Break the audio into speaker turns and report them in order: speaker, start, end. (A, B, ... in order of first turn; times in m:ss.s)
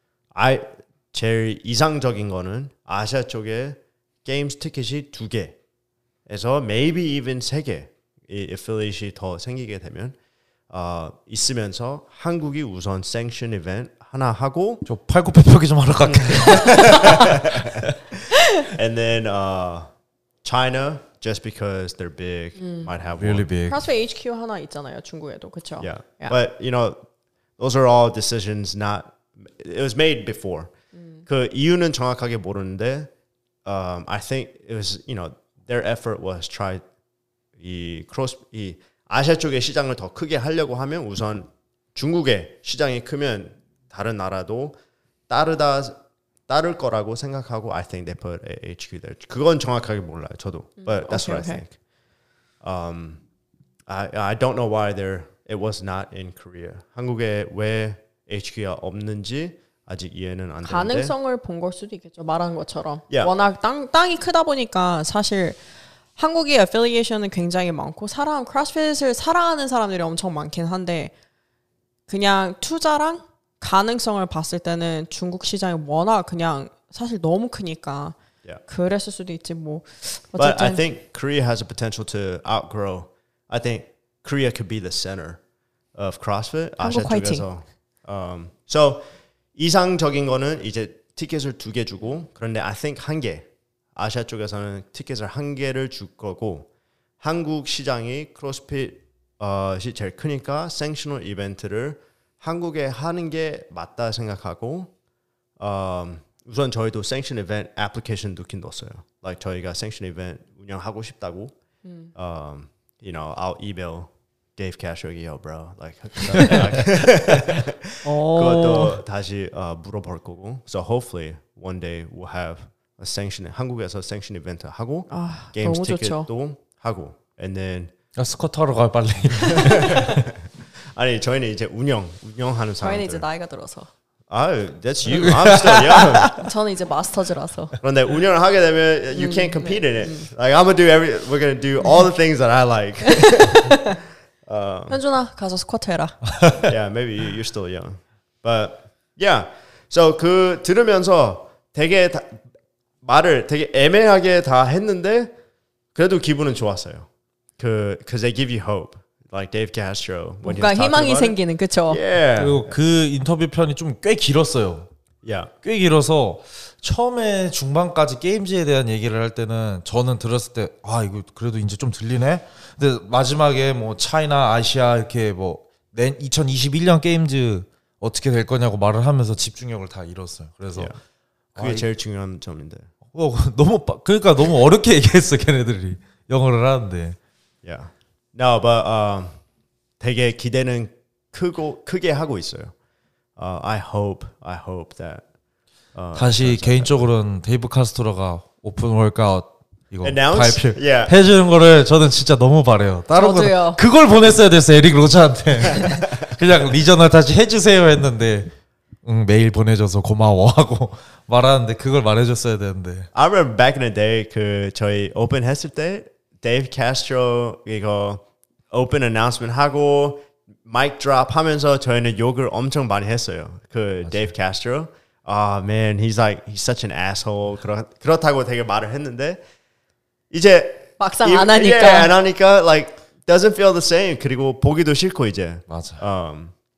0:00.3-0:05.6 A
0:06.3-0:10.2 A
0:10.7-0:14.8 A
0:14.8-0:17.8 B
0:16.1-0:17.9 A
0:18.6-0:19.9 A
0:20.4-0:23.5 A
0:22.6-0:22.9 C
0:23.2-0:23.8 B
0:23.7-0:26.4 C
0:25.8-0:27.0 A
0:27.6-0:30.7 A
0:31.0-0:31.2 C
0:31.3-0:33.1 A
0:33.6-0:36.8 A
0:37.6-0:44.8 A
0:45.3-0:46.0 A
0:46.5-0:51.8 A
0:50.8-0:51.6 C
0:52.6-0:53.2 A
0:53.9-1:01.1 A
1:00.6-1:05.6 C
1:06.2-1:11.1 C
1:12.1-1:20.8 C
1:20.4-1:25.4 A
1:26.0-1:29.0 A
1:26.8-1:27.4 C
1:29.6-1:36.7 A
1:37.2-1:44.9 A
1:45.6-1:51.5 A
1:51.8-1:52.1 C
1:52.2-2:07.9 A
1:58.0-1:59.0 C
2:05.1-2:06.3 C
2:08.2-2:10.2 B
2:09.5-2:10.4 A
2:09.6-2:10.0 C
2:10.9-2:13.2 A
2:12.8-2:13.9 C
2:14.3-2:16.4 A
2:15.2-2:15.7 B
2:16.2-2:17.8 C
2:17.8-2:23.9 A
2:19.2-2:20.3 C
2:23.1-2:24.0 C
2:24.5-2:25.0 A
2:24.9-2:26.2 C
2:26.4-2:26.7 B
2:26.6-2:32.4 A
2:33.0-2:35.3 A
2:36.0-2:37.1 A
2:37.6-2:41.4 A
2:40.4-2:42.0 C
2:41.9-2:42.7 A
2:42.4-2:44.9 B
2:45.2-2:45.5 A
2:45.6-3:00.9 B
3:01.6-3:02.9 A
3:01.6-3:01.9 B
3:03.1-3:07.2 B
3:07.6-3:09.4 A
3:10.0-3:12.7 A
3:13.4-3:15.2 A
3:15.9-3:17.1 A
3:16.2-3:28.5 B
3:20.0-3:21.2 A
3:23.2-3:23.8 C
3:29.0-3:33.1 B
3:33.1-3:49.4 A
3:50.3-3:56.5 A
3:51.0-3:52.1 C
3:55.7-3:56.0 B